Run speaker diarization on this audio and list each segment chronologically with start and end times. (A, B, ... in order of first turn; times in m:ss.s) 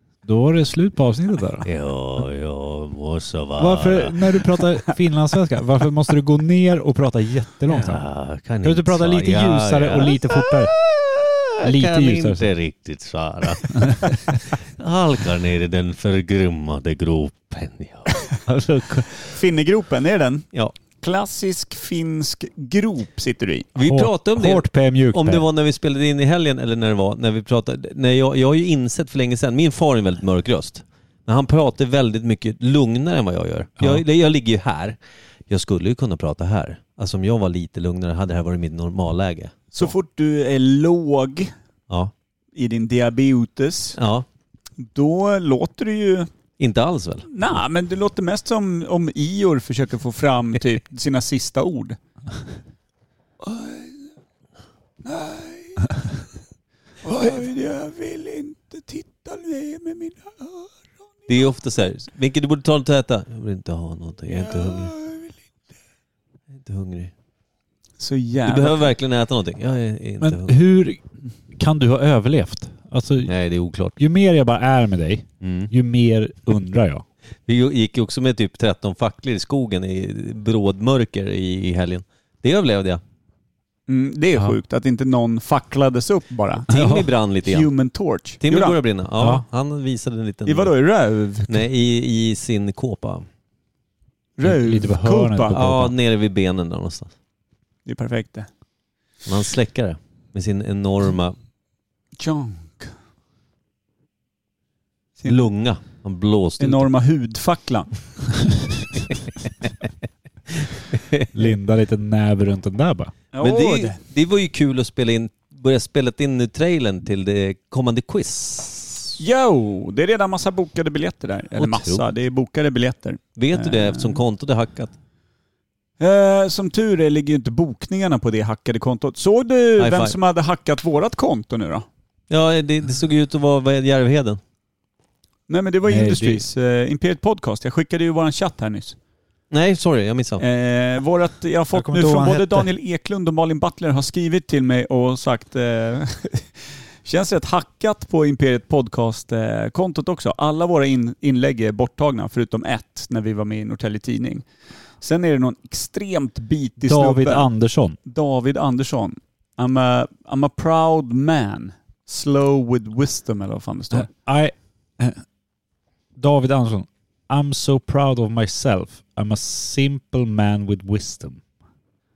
0:00.2-0:01.7 A
0:01.6-0:04.2 B
0:03.6-0:08.0 A
0:07.7-0:18.3 B
0:08.6-0:10.8 A
0:11.6-0:12.5 A
0:13.7-0:14.0 A
0:18.4-0:19.2 A
0:19.2-0:23.7 C
0:23.8-0:35.0 B
0:23.8-0:25.4 A
0:35.5-0:39.9 B
0:39.7-0:41.5 C
0:42.6-0:44.0 C
0:44.0-0:44.2 B
0:44.8-0:46.3 C
0:46.6-0:47.3 B
0:47.3-0:52.0 C
0:53.4-0:53.9 C
0:55.0-0:55.9 C
0:57.0-1:00.7 C
1:01.3-1:04.9 B
1:04.4-1:05.3 C
1:06.6-1:07.1 B
1:08.0-1:08.9 C
1:08.4-1:10.6 B
1:10.2-1:11.0 A
1:11.6-1:13.3 A
1:13.3-1:14.0 B
1:14.0-1:17.0 A
1:15.4-1:15.7 B
1:17.5-1:23.0 B
1:23.9-1:26.7 C
1:26.7-1:27.7 B
1:26.7-1:27.0 A
1:27.4-1:28.8 C
1:28.4-1:30.7 B
1:29.2-1:29.4 A
1:30.5-1:31.6 C
1:31.5-1:33.3 B
1:34.4-1:35.6 C
1:34.4-1:35.9 A
1:35.5-1:37.1 B
1:37.9-1:38.5 C
1:39.3-1:41.3 B
1:42.2-1:42.9 C
1:45.2-1:45.4 C
1:45.3-1:46.9 B
1:46.6-1:48.6 C
1:50.9-1:51.3 B
1:51.3-1:53.1 A
1:53.3-1:54.0 C
1:53.4-1:59.2 B
1:59.2-2:04.2 C
2:01.5-2:02.0 B
2:03.4-2:04.9 B
2:06.0-2:11.8 C
2:09.8-2:10.2 B
2:12.3-2:14.4 B
2:15.5-2:19.0 C
2:15.9-2:16.4 A
2:19.5-2:20.4 B
2:20.4-2:26.5 C
2:21.7-2:22.7 A
2:27.0-2:34.4 C
2:35.0-2:37.5 C
2:36.8-2:38.0 A
2:38.0-2:44.1 C
2:43.9-2:45.2 A
2:46.2-2:51.4 A